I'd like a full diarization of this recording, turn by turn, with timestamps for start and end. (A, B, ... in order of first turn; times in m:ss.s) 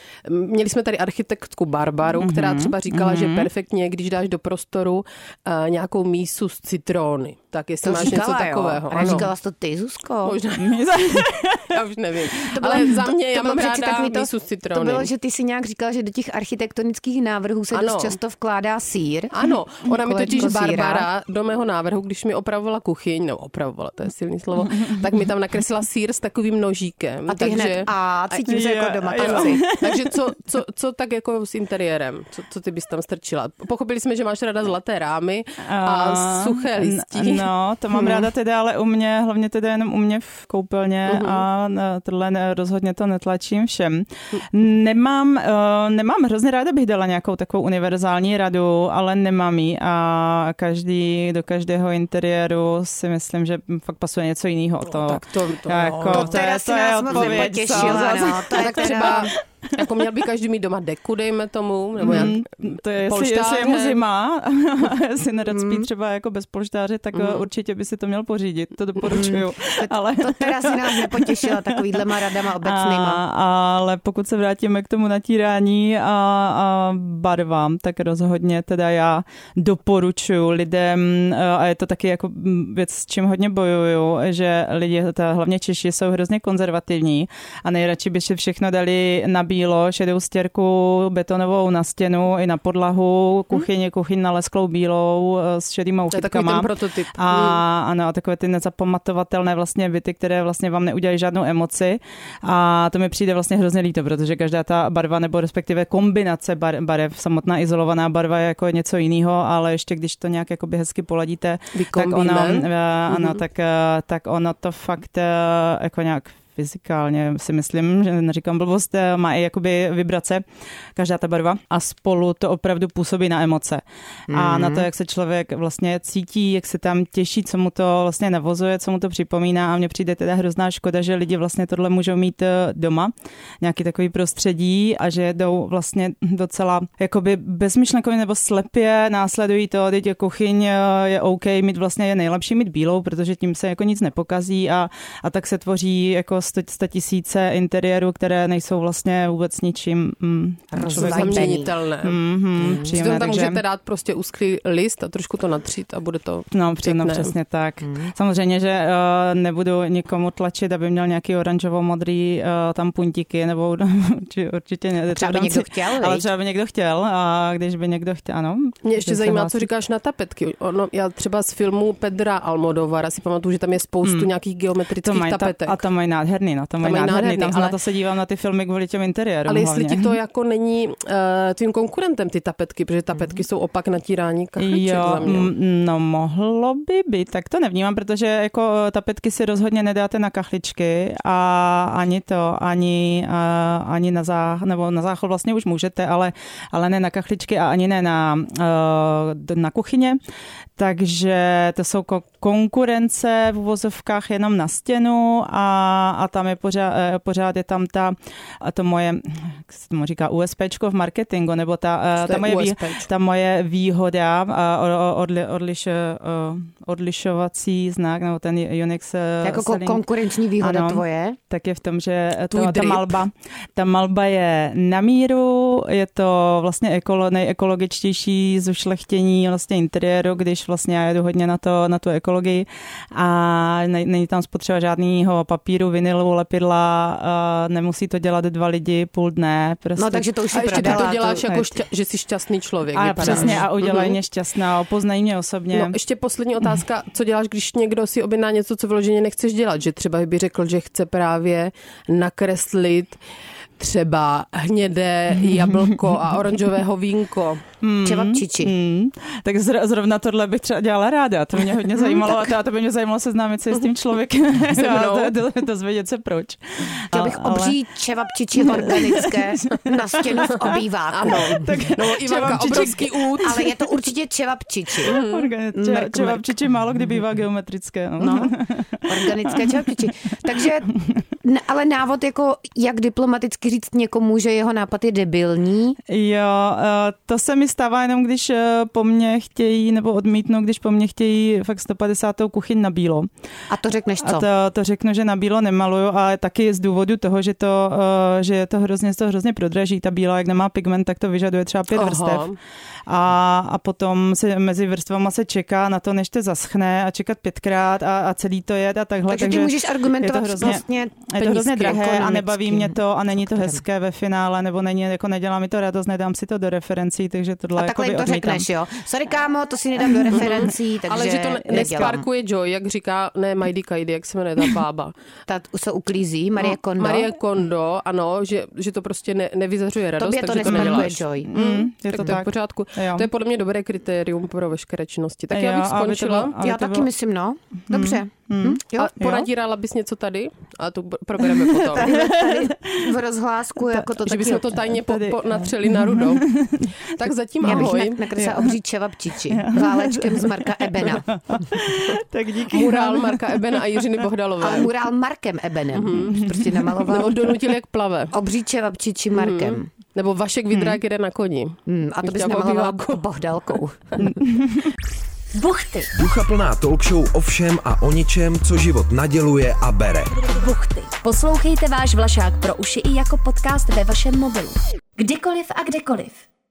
0:00.3-0:09.3 A
0:02.2-0:03.5 B
0:07.8-0:10.4 C
0:09.0-0:09.3 B
0:10.2-0:15.1 A
0:10.6-0:11.8 B
0:12.5-0:19.3 C
0:17.7-0:18.2 A
0:19.3-0:27.9 A
0:19.8-0:21.1 C
0:24.7-0:25.0 B
0:27.3-0:29.6 C
0:28.5-0:30.3 B
0:29.2-0:38.2 A
0:35.6-0:59.8 B
0:41.1-0:41.4 A
0:54.9-0:56.4 A
0:56.1-0:59.3 C
0:57.1-1:02.5 A
1:02.0-2:00.4 B
1:03.0-1:04.0 A
1:05.5-1:05.9 C
1:07.1-1:07.4 A
1:09.0-1:13.2 C
1:36.1-1:37.6 A
1:51.7-1:53.4 A
2:01.0-2:33.6 B
2:04.3-2:04.9 C
2:30.7-2:31.7 C
2:30.9-2:32.2 A
2:32.6-2:33.0 C
2:32.8-2:37.3 A
2:36.5-2:49.7 B
2:37.8-2:38.1 C
2:45.1-2:46.3 C
2:48.8-2:55.8 A
2:54.0-2:54.3 B
2:55.0-3:00.2 B
2:56.8-2:57.8 A
2:59.5-3:05.5 A
3:04.6-3:20.2 B
3:20.8-3:40.0 B
3:32.2-3:33.1 A
3:39.4-3:41.4 C
3:40.6-4:01.8 B
3:42.5-3:43.2 A
4:00.0-4:01.4 C
4:00.5-4:04.2 A
4:02.9-4:06.0 B
4:03.2-4:03.6 C
4:05.7-4:13.2 A
4:13.8-4:17.6 A
4:15.4-4:16.0 B
4:17.8-4:27.8 B
4:18.0-4:18.7 C
4:24.7-4:25.3 A
4:27.1-4:31.7 C
4:28.6-4:33.3 B
4:31.1-4:33.8 A
4:33.4-4:35.2 C
4:35.0-4:35.5 A
4:35.1-4:39.9 B
4:35.7-4:36.7 C
4:38.2-4:38.5 C
4:39.0-4:46.0 C
4:46.1-4:53.3 B
4:53.7-4:54.5 C
4:54.2-5:02.5 B
5:01.9-5:02.6 A
5:03.1-5:18.7 B
5:09.3-5:11.2 C
5:11.4-5:12.7 A
5:12.6-5:13.8 C
5:17.8-5:22.2 C
5:20.3-5:25.1 A
5:21.7-5:22.2 B
5:25.5-5:27.3 C
5:26.6-5:36.6 A
5:30.2-5:31.5 C
5:30.6-5:33.3 B
5:35.5-5:37.1 B
5:36.6-5:39.2 C
5:37.9-5:39.5 B
5:39.0-5:42.1 A
5:41.4-5:43.1 B
5:42.0-5:44.8 C
5:43.9-5:47.0 B
5:44.2-5:46.5 A
5:47.0-5:48.2 A
5:47.6-5:48.7 B
5:47.6-5:51.6 C
5:49.5-5:53.8 B
5:52.1-5:54.9 A
5:54.6-5:57.6 C
5:56.0-5:56.4 A
5:56.3-5:57.1 B
5:57.1-5:58.3 A
5:58.3-5:59.9 C
5:59.3-6:03.2 A
6:01.9-6:04.3 C
6:04.2-6:04.9 B
6:05.5-6:06.1 D
6:06.1-6:10.4 E
6:10.4-6:16.4 D